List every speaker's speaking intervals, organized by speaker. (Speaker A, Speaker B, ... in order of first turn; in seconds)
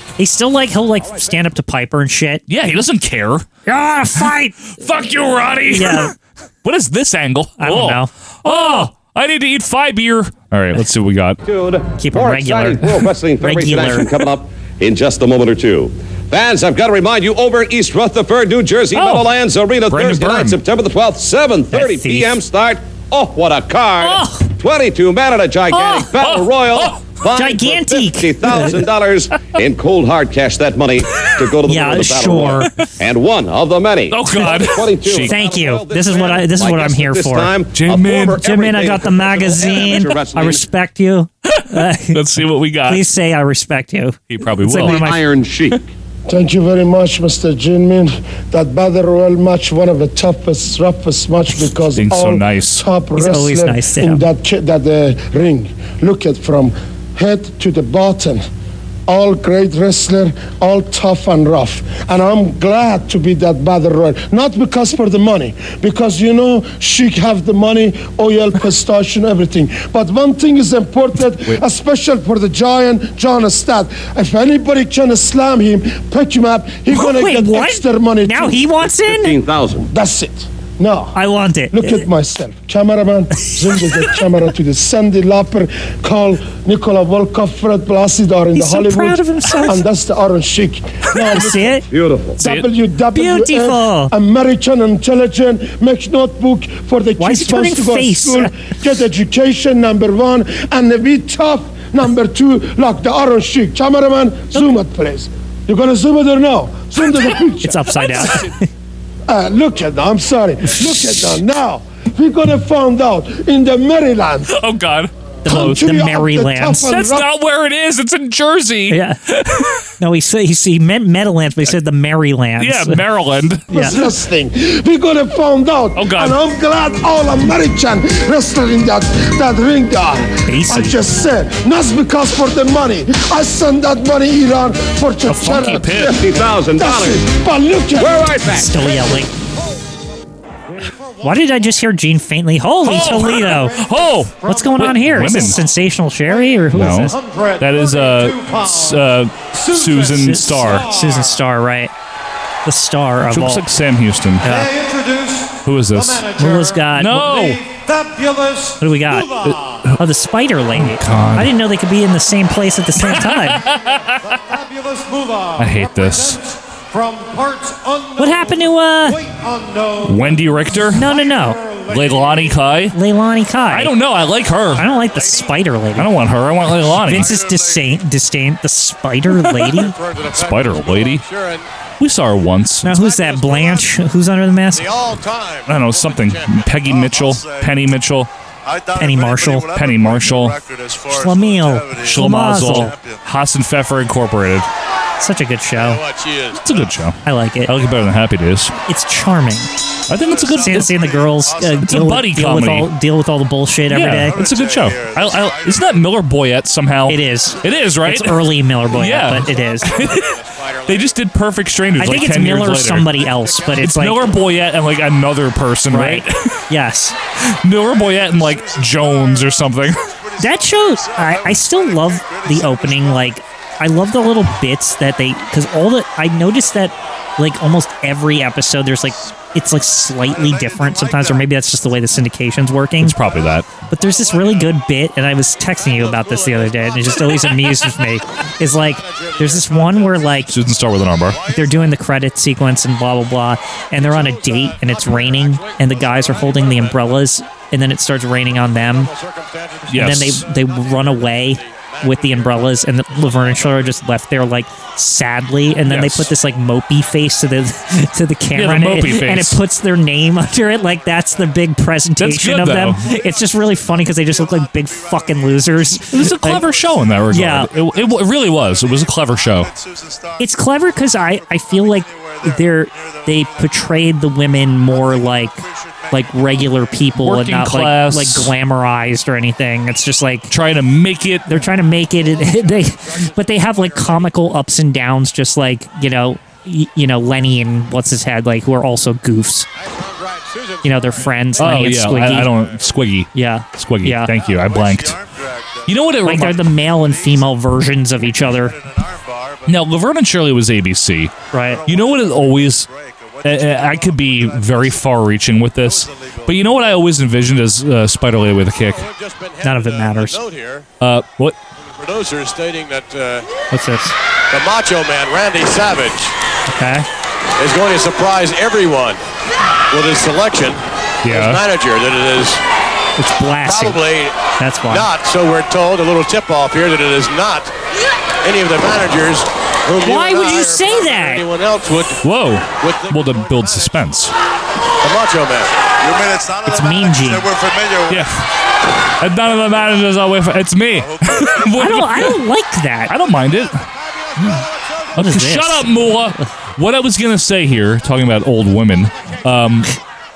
Speaker A: 0.2-2.4, 3.7-4.8, 5.7-6.1, 7.6-8.9, 12.0-14.2, 21.7-22.4, 24.0-24.5, 27.3-28.8, 31.7-32.7, 34.4-34.7, 35.3-37.5, 38.4-45.2, 53.1-54.2, 76.9-79.4, 81.1-82.1, 88.5-89.8, 91.3-91.8, 93.1-94.1, 97.2-98.5, 107.6-108.6, 115.4-116.9, 118.9-119.2, 120.0-123.0, 123.7-124.0, 130.5-131.0, 135.3-135.8, 138.5-139.3, 141.2-143.8, 144.4-147.2, 150.2-151.9, 152.7-153.6, 156.4-157.5, 158.8-159.3, 160.0-163.6, 168.2-169.2, 170.9-171.6, 172.9-173.9, 174.8-176.1, 177.0-179.9, 182.8-184.9, 189.0-189.7, 191.1-192.9, 195.2-196.0, 197.2-197.7, 198.9-199.7, 200.6-204.4, 207.1-210.0, 212.0-214.3, 215.9-217.2, 220.4-233.2, 233.9-240.6, 241.5-249.1, 249.9-266.7, 267.3-267.7, 270.4-280.5, 281.5-289.7, 290.8-292.5, 293.3-294.3, 296.2-298.8, 301.5-301.8, 309.6-310.4, 313.7-314.1, 316.7-317.1, 323.2-324.0, 324.6-325.1, 330.0-331.4, 336.7-337.5, 341.8-343.1, 345.2-346.5
Speaker B: 2.5-3.5, 4.8-11.4, 18.9-19.2, 19.9-20.6, 25.8-27.1, 34.1-35.3, 37.7-38.4, 41.5-43.0, 44.3-45.1, 52.0-52.8, 92.4-92.7, 114.5-116.0, 116.8-119.9, 122.6-124.1, 126.0-126.4, 135.3-136.2, 142.8-145.6, 146.7-150.9, 153.3-154.5, 155.6-156.3, 156.9-157.6, 159.4-160.0, 160.7-161.5, 163.0-164.3, 165.6-166.4, 170.0-171.1, 171.9-173.0, 173.7-174.8, 176.0-177.4, 179.3-181.2, 182.0-182.9, 185.7-188.3, 189.7-190.6, 192.0-194.7, 196.6-198.7, 200.1-201.0, 201.8-202.9, 203.9-216.6, 217.6-220.0, 233.0-233.7, 240.5-241.4, 249.9-250.5, 255.8-256.3, 258.5-259.6, 262.2-263.0, 266.1-269.7, 277.2-278.5, 280.5-281.6, 291.6-295.2, 295.9-296.6, 299.7-301.3, 301.9-302.9, 303.4-309.1, 311.0-311.6, 321.2-321.6, 332.2-334.3, 338.1-338.4, 339.2-342.4, 343.1-343.9, 345.2-349.9
Speaker C: 11.4-40.6, 44.8-45.8, 79.1-79.9, 91.9-92.4, 135.9-137.3, 138.0-139.0
Speaker D: 46.3-58.5, 59.1-78.7, 79.8-81.2, 81.7-91.8, 92.4-108.2, 109.3-114.5, 115.5-117.3, 123.7-136.1, 136.7-138.4
Speaker E: 140.7-141.8, 142.9-151.4, 154.4-159.9, 164.2-172.8
Speaker F: 177.0-178.1, 183.2-183.9, 186.8-187.9, 188.7-193.3, 200.1-202.2, 204.0-206.3, 217.8-223.4, 230.2-231.8, 241.2-242.0, 246.1-246.9, 260.6-261.5, 263.0-277.1, 294.3-300.0, 301.5-307.3, 336.0-338.3, 340.9-342.0
Speaker G: 179.7-181.7, 183.0-183.4, 184.7-186.7, 195.8-196.9, 209.5-211.2, 213.4-214.2, 234.0-234.8, 235.8-237.9, 238.7-240.4, 243.9-247.1, 248.9-254.0, 282.4-284.3, 289.8-292.9, 308.9-310.9, 311.8-313.5, 314.5-316.3, 317.6-319.2, 319.9-322.6, 323.6-324.4, 324.9-327.7, 328.4-332.2, 332.8-333.9, 335.0-335.8, 343.9-345.1